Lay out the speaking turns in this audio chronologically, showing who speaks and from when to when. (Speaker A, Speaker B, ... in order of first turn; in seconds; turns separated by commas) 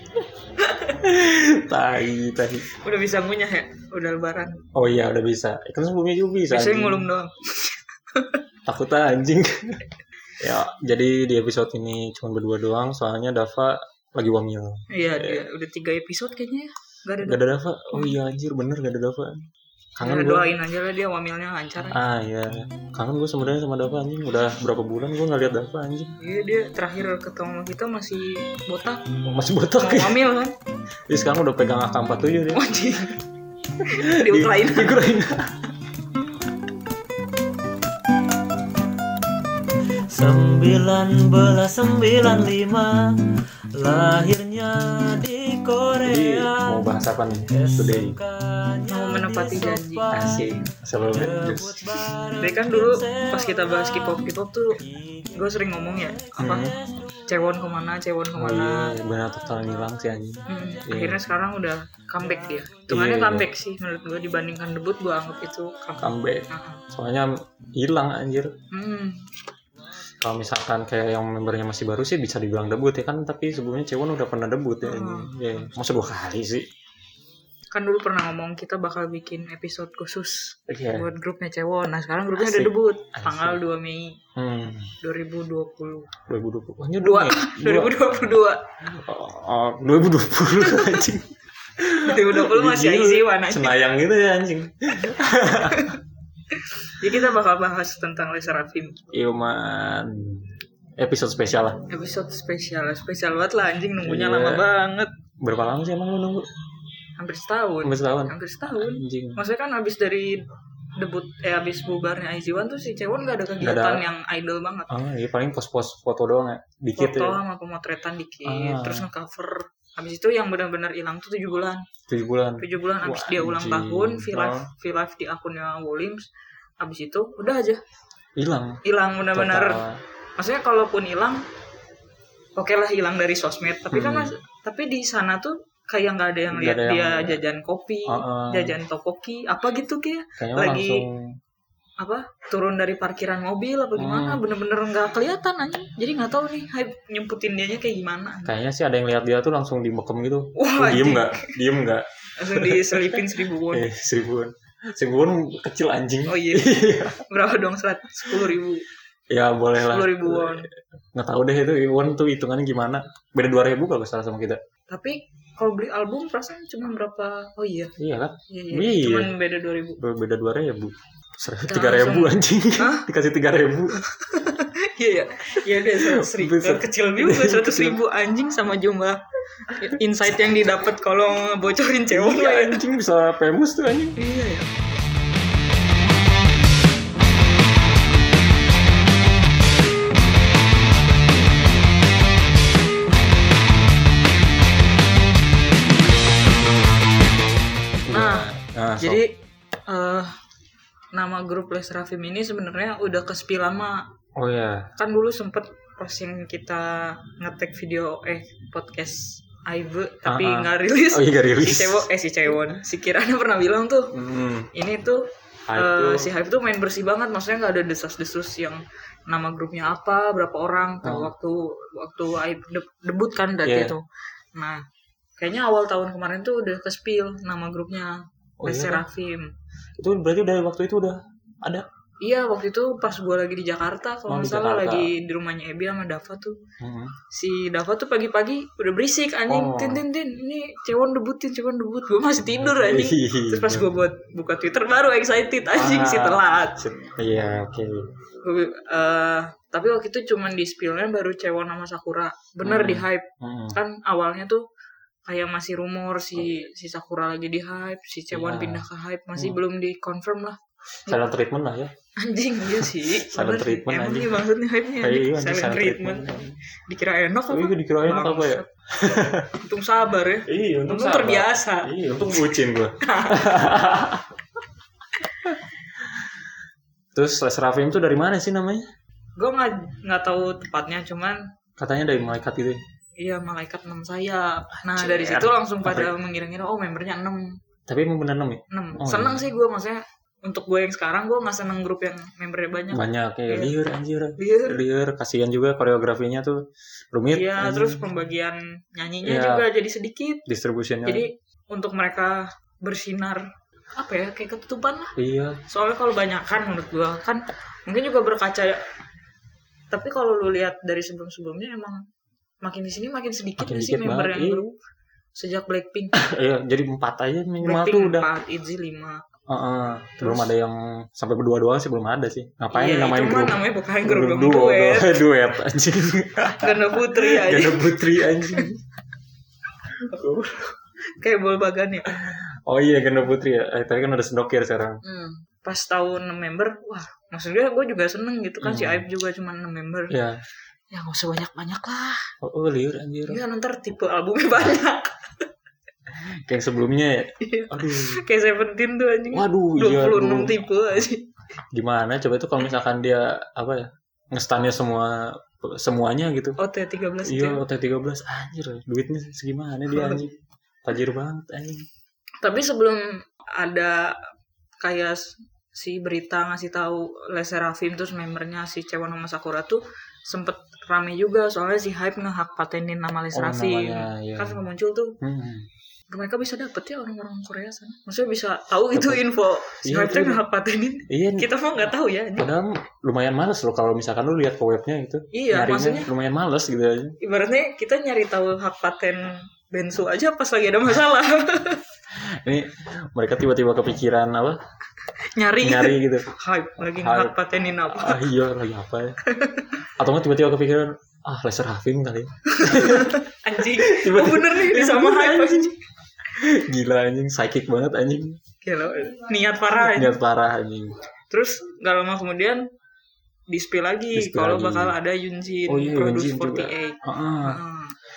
Speaker A: 0.6-0.9, Speaker B: 1.0-2.7, Speaker A: 2.7-4.6, Speaker B: 4.7-7.1, Speaker A: 6.5-8.4, Speaker B: 8.7-9.8, Speaker B: 10.4-15.4, Speaker A: 14.9-17.4, Speaker B: 17.2-19.4, Speaker B: 20.0-20.5, Speaker A: 20.0-22.0, Speaker B: 21.9-26.1, Speaker A: 26.2-29.1, Speaker B: 29.2-30.2, Speaker A: 29.8-30.6, Speaker B: 31.1-32.6, Speaker A: 32.5-33.2, Speaker B: 33.8-35.5, Speaker A: 33.9-35.0, Speaker C: 40.1-46.9, Speaker B: 46.0-48.2, Speaker C: 47.5-54.2, Speaker A: 48.9-50.1, Speaker B: 50.1-51.9, Speaker A: 52.4-54.8, Speaker C: 54.8-55.4, Speaker A: 55.3-56.7, Speaker C: 56.2-57.1, Speaker B: 56.4-56.7, Speaker A: 57.3-58.9, Speaker B: 58.4-61.2, Speaker A: 60.5-66.8, Speaker B: 62.9-63.5, Speaker B: 66.0-68.5, Speaker A: 68.7-69.2, Speaker B: 70.2-76.7, Speaker A: 74.8-75.6, Speaker A: 77.7-84.2, Speaker B: 80.7-81.1, Speaker B: 82.3-83.6, Speaker B: 84.3-84.9, Speaker A: 85.0-86.1, Speaker B: 86.3-88.1, Speaker A: 87.0-88.6, Speaker B: 88.9-96.0, Speaker A: 90.6-91.0, Speaker A: 92.0-93.8, Speaker A: 95.7-96.0, Speaker A: 96.5-99.0, Speaker B: 99.1-100.5, Speaker B: 101.0-101.8, Speaker A: 101.9-105.1, Speaker B: 104.0-104.6, Speaker B: 105.4-106.5, Speaker A: 107.2-110.4, Speaker B: 107.8-109.4, Speaker A: 111.0-114.9, Speaker B: 113.6-114.0, Speaker B: 114.9-117.4, Speaker A: 117.0-121.8, Speaker B: 118.4-119.1, Speaker B: 122.1-124.7, Speaker A: 122.6-126.3, Speaker A: 126.8-127.8, Speaker B: 128.4-128.8, Speaker A: 128.8-129.8, Speaker B: 129.3-130.0, Speaker A: 130.4-131.4, Speaker A: 132.6-141.0, Speaker B: 133.9-134.3, Speaker B: 136.5-137.4, Speaker B: 138.1-138.8, Speaker B: 140.4-141.2, Speaker A: 142.0-148.5, Speaker B: 144.0-144.4, Speaker B: 148.4-157.2, Speaker A: 150.6-151.5, Speaker A: 152.4-153.9, Speaker A: 156.3-158.8, Speaker B: 159.3-164.6, Speaker A: 159.8-160.7, Speaker A: 164.9-167.9, Speaker B: 168.0-169.3, Speaker A: 168.5-170.0, Speaker B: 170.0-174.0, Speaker A: 171.7-173.1, Speaker A: 174.0-182.8, Speaker B: 175.9-178.0, Speaker B: 182.1-184.2, Speaker A: 184.2-184.7, Speaker B: 198.0-199.2, Speaker A: 198.1-198.5, Speaker A: 199.0-200.3, Speaker A: 201.1-204.1, Speaker B: 204.3-204.9, Speaker A: 205.0-214.1, Speaker B: 210.2-212.1, Speaker B: 214.1-214.7, Speaker A: 214.7-224.0, Speaker B: 215.7-216.3, Speaker B: 221.0-221.3, Speaker B: 223.6-223.9, Speaker A: 224.5-224.8, Speaker A: 225.4-229.5, Speaker B: 228.6-229.0, Speaker B: 230.0-231.8, Speaker A: 232.2-236.6, Speaker B: 234.3-235.1, Speaker B: 236.8-237.1, Speaker A: 237.3-246.8, Speaker B: 239.5-240.0, Speaker B: 242.6-243.9, Speaker B: 245.7-248.0, Speaker A: 248.4-254.6, Speaker B: 252.6-253.8, Speaker A: 255.3-261.2, Speaker B: 258.3-258.8, Speaker B: 261.1-261.9, Speaker A: 262.2-268.7, Speaker B: 263.1-264.3, Speaker B: 265.0-266.6, Speaker B: 267.5-269.5, Speaker A: 269.6-273.6, Speaker B: 270.5-274.3, Speaker B: 277.1-278.9, Speaker A: 279.4-281.4, Speaker B: 281.8-282.8, Speaker A: 283.2-287.6, Speaker B: 284.9-286.1, Speaker B: 287.9-289.4, Speaker A: 288.7-293.7, Speaker B: 292.9-296.6, Speaker A: 294.4-294.8, Speaker B: 297.1-298.0, Speaker A: 297.3-300.4, Speaker B: 299.2-299.6, Speaker B: 300.5-301.2, Speaker A: 301.0-303.4, Speaker A: 304.0-305.1, Speaker B: 305.1-305.6, Speaker A: 305.7-308.8, Speaker A: 309.9-312.0, Speaker A: 312.6-314.7, Speaker B: 313.6-314.6, Speaker A: 315.3-316.1, Speaker B: 316.1-318.3, Speaker A: 317.6-319.2, Speaker B: 319.5-328.8, Speaker A: 320.2-320.5, Speaker A: 322.7-325.2, Speaker A: 326.6-328.7, Speaker A: 330.1-330.4, Speaker B: 330.1-330.7, Speaker A: 331.1-332.1, Speaker B: 332.1-335.0, Speaker A: 335.0-340.1, Speaker B: 338.6-339.0, Speaker B: 340.1-340.4, Speaker A: 340.9-342.3, Speaker B: 342.4-343.4, Speaker A: 343.2-345.5, Speaker B: 346.3-348.2, Speaker A: 347.4-351.3, Speaker B: 349.3-350.7, Speaker B: 351.7-356.6, Speaker A: 356.6-357.6, Speaker B: 357.2-360.3, Speaker A: 359.9-360.2, Speaker B: 360.8-361.9, Speaker A: 362.4-364.2, Speaker A: 364.8-375.1, Speaker B: 373.3-374.6, Speaker B: 375.2-375.6, Speaker A: 376.1-382.5, Speaker B: 378.9-380.4, Speaker B: 381.1-381.5, Speaker B: 382.4-387.2, Speaker A: 385.3-386.1, Speaker A: 387.2-391.8, Speaker B: 392.4-394.6, Speaker A: 395.2-398.2, Speaker B: 395.6-396.3, Speaker B: 396.8-397.4, Speaker B: 397.9-399.2, Speaker A: 399.2-399.7, Speaker B: 400.0-405.7, Speaker A: 402.5-405.8, Speaker B: 406.3-408.4, Speaker A: 408.6-410.2, Speaker B: 409.8-411.0, Speaker A: 411.3-412.6, Speaker A: 413.5-417.9, Speaker B: 414.1-414.9, Speaker B: 415.7-417.6